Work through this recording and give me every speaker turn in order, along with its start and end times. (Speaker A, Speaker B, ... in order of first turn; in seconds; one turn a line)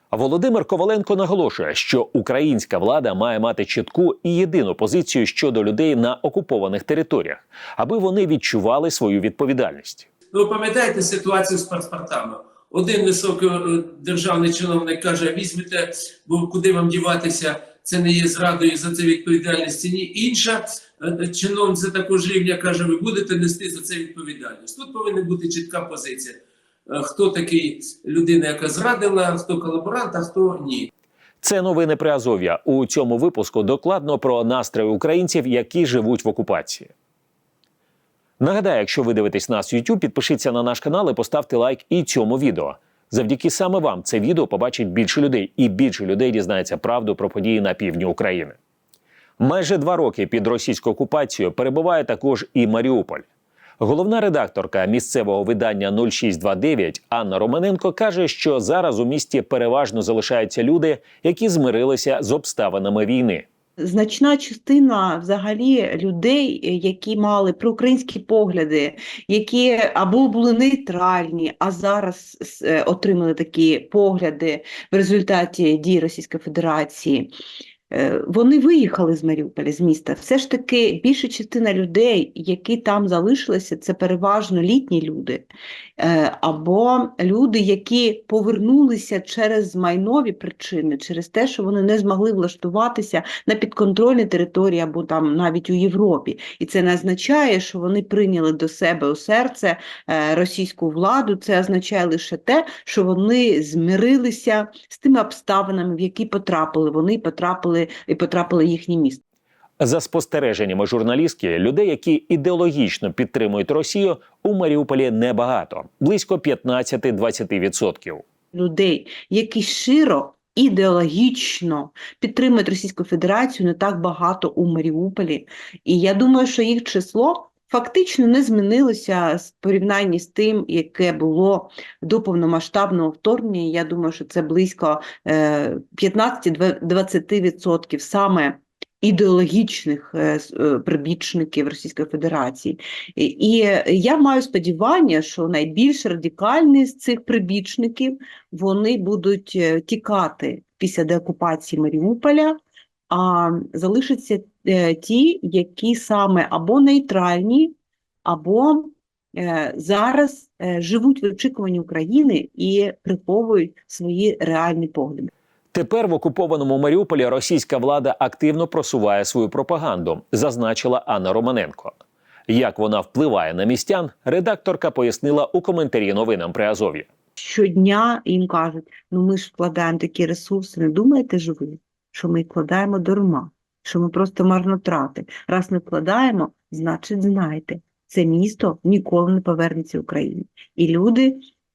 Speaker A: 0.1-10.1
Speaker B: 10.3-30.9
Speaker A: 31.4-36.9
Speaker A: 38.4-48.6
Speaker A: 49.4-53.2
Speaker A: 53.8-63.4
Speaker C: 63.8-77.3
Speaker C: 77.9-85.5
Speaker C: 86.0-109.2
Speaker A: 109.8-118.2
Speaker C: 118.5-152.6
Speaker C: 153.1-157.7
Speaker C: 158.2-165.3
Speaker A: 165.7-172.0
Speaker A: 172.5-177.1
Speaker C: 177.4-191.4